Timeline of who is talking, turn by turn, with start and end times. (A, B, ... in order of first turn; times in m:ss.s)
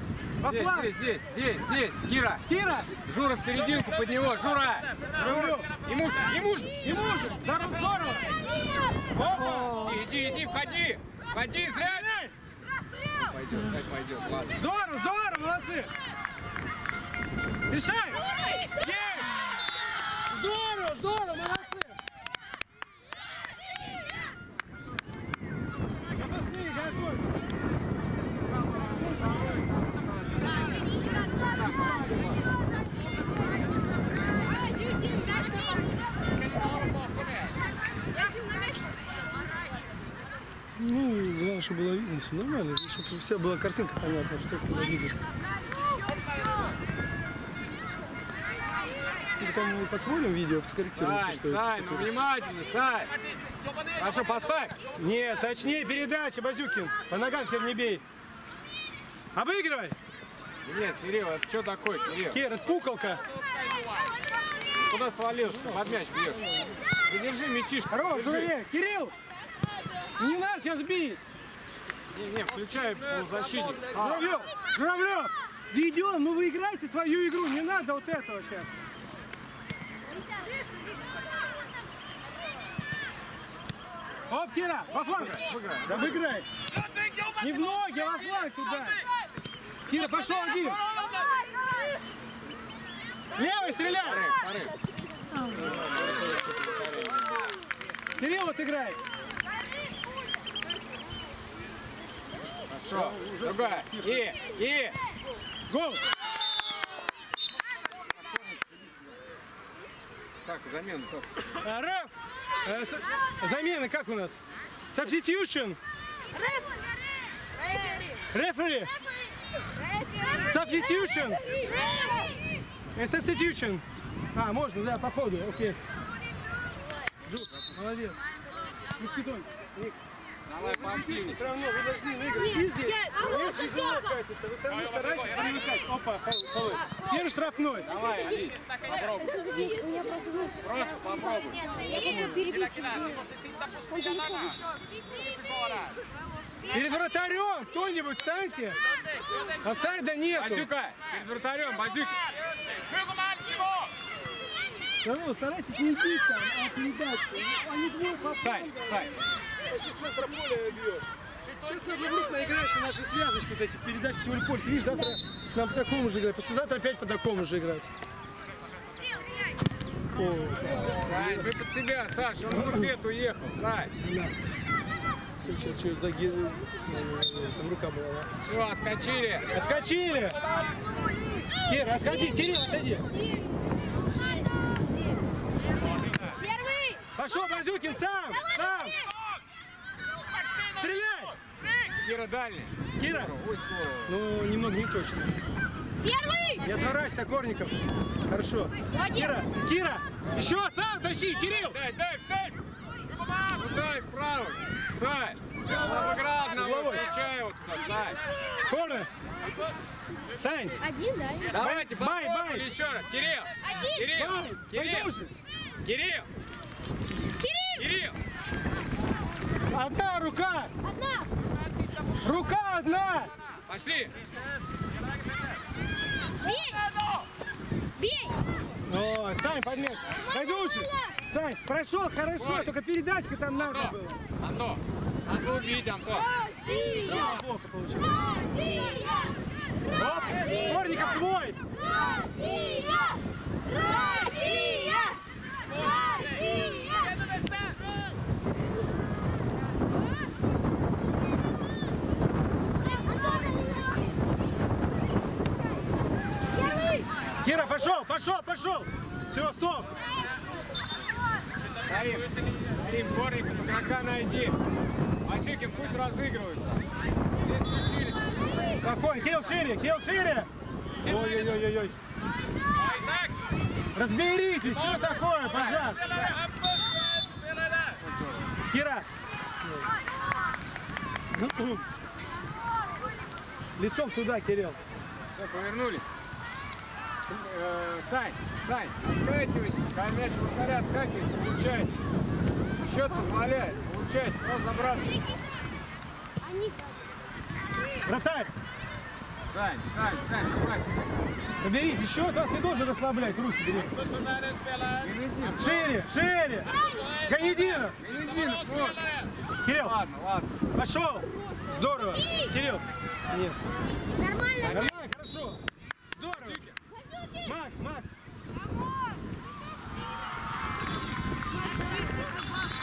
0:00.4-0:00.9 A
0:00.4-0:02.4 B
0:02.5-0:02.9 A
0:03.0-0:06.7 B
0:05.1-0:05.7 A
0:06.8-0:08.3 A
0:09.1-0:10.0 A
0:09.7-0:12.1 B
0:11.8-0:12.3 A
0:13.1-0:14.6 B
0:14.5-0:15.9 A
0:17.7-0:19.4 A
0:20.3-0:22.0 A
0:26.1-0:27.3 A
0:28.6-0:30.6 B
0:31.5-0:32.3 B
0:31.7-0:32.4 A
0:34.5-0:35.8 C
0:38.1-0:39.3 C
0:40.8-0:45.2 A
0:49.4-0:52.2 A
0:50.9-0:53.1 B
0:53.9-0:54.8 B
0:55.0-0:58.0 A
0:59.3-1:00.0 A
1:00.6-1:02.4 B
1:02.3-1:03.2 A
1:04.8-1:08.5 B
1:07.9-1:09.1 A
1:10.2-1:11.2 A
1:12.1-1:14.4 B
1:13.9-1:18.7 A
1:24.3-1:26.5 A
1:25.2-1:26.2 B
1:27.4-1:29.0 A
1:29.9-1:30.8 A
1:33.3-1:34.3 A
1:34.0-1:34.8 B
1:35.6-1:37.1 B
1:38.2-1:39.0 A
1:42.7-1:45.0 B
1:42.9-1:44.2 A
1:45.7-1:46.0 A
1:50.4-1:51.4 B
1:51.6-1:52.1 A
1:52.6-1:54.4 A
1:54.9-1:55.8 A
1:56.3-1:56.8 C
1:57.6-1:58.2 C
1:58.3-1:58.9 A
1:59.7-2:00.5 C
2:00.5-2:01.4 A
2:01.4-2:02.3 C
2:02.9-2:05.8 A
2:07.2-2:08.2 A
2:09.0-2:10.0 A
2:10.4-2:11.4 B
2:10.6-2:17.9 A
2:12.4-2:14.2 C
2:17.8-2:19.3 B
2:17.9-2:20.6 C
2:20.6-2:21.8 B
2:21.5-2:24.6 C
2:21.9-2:22.4 A
2:26.7-2:28.8 A
2:29.6-2:30.7 A
2:30.3-2:32.2 B
2:35.0-2:38.8 A
2:38.4-2:39.1 B
2:39.6-2:47.9 A
2:50.1-2:51.5 A
2:50.9-2:53.9 B
2:52.5-2:52.9 A
2:54.0-2:54.3 A
2:55.4-2:58.3 A
2:58.4-2:59.6 B
2:59.5-3:00.5 A
3:01.6-3:03.1 A
3:01.9-3:03.5 C
3:04.0-3:05.2 C
3:06.2-3:07.1 C
3:07.2-3:09.0 A
3:08.6-3:09.1 C
3:10.7-3:11.3 A
3:12.0-3:14.2 B
3:13.0-3:13.3 A
3:14.0-3:15.3 A
3:16.0-3:16.7 C
3:16.6-3:21.8 A
3:18.9-3:19.4 C
3:21.5-3:22.6 B
3:23.5-3:28.2 B
3:26.5-3:27.1 A
3:28.6-3:29.1 A
3:30.4-3:30.8 A
3:30.8-3:31.5 C
3:31.5-3:32.7 A
3:31.5-3:35.1 B
3:33.6-3:34.0 C
3:34.1-3:35.3 A
3:35.8-3:36.3 B
3:37.4-3:37.9 C
3:37.8-3:38.2 B
3:39.7-3:40.7 A
3:40.8-3:41.3 C
3:42.2-3:43.3 A
3:43.7-3:44.1 B
3:46.4-3:46.9 C
3:48.0-3:48.4 C
3:48.9-3:54.2 A
3:50.3-3:51.0 C
3:52.4-3:52.8 B
3:53.6-3:56.3 B
3:56.3-3:57.4 C
3:57.0-3:58.2 A
3:58.0-4:01.0 C
3:59.9-4:01.6 A
4:01.8-4:07.3 C
4:13.1-4:14.2 C
4:16.5-4:17.1 C
4:17.4-4:19.9 A
4:21.8-4:24.6 B
4:25.2-4:26.8 B
4:27.4-4:28.7 B
4:28.8-4:30.5 A
4:31.0-4:32.0 A
4:33.0-4:33.3 D
4:33.9-4:36.0 A
4:35.6-4:35.9 D
4:35.7-4:36.4 B
4:36.5-4:37.4 D
4:38.0-4:38.5 B
4:38.7-4:39.1 A
4:41.3-4:41.8 A
4:43.8-4:44.8 A
4:45.3-4:46.0 B
4:47.3-4:52.0 B
4:52.8-4:55.2 B
4:56.4-4:57.0 C
4:58.0-4:58.5 A
4:59.4-5:01.2 B
5:01.6-5:04.0 A
5:04.3-5:04.8 D
5:05.0-5:05.9 B
5:05.6-5:06.7 A
5:06.8-5:07.2 C
5:07.2-5:08.0 A
5:08.0-5:09.1 B
5:09.6-5:09.9 A
5:09.7-5:10.5 B
5:10.7-5:13.6 A
5:14.1-5:14.8 C
5:14.5-5:15.0 B
5:14.7-5:15.6 A
5:16.1-5:16.6 A
5:16.4-5:16.7 B
5:16.9-5:17.5 C
5:17.4-5:18.1 A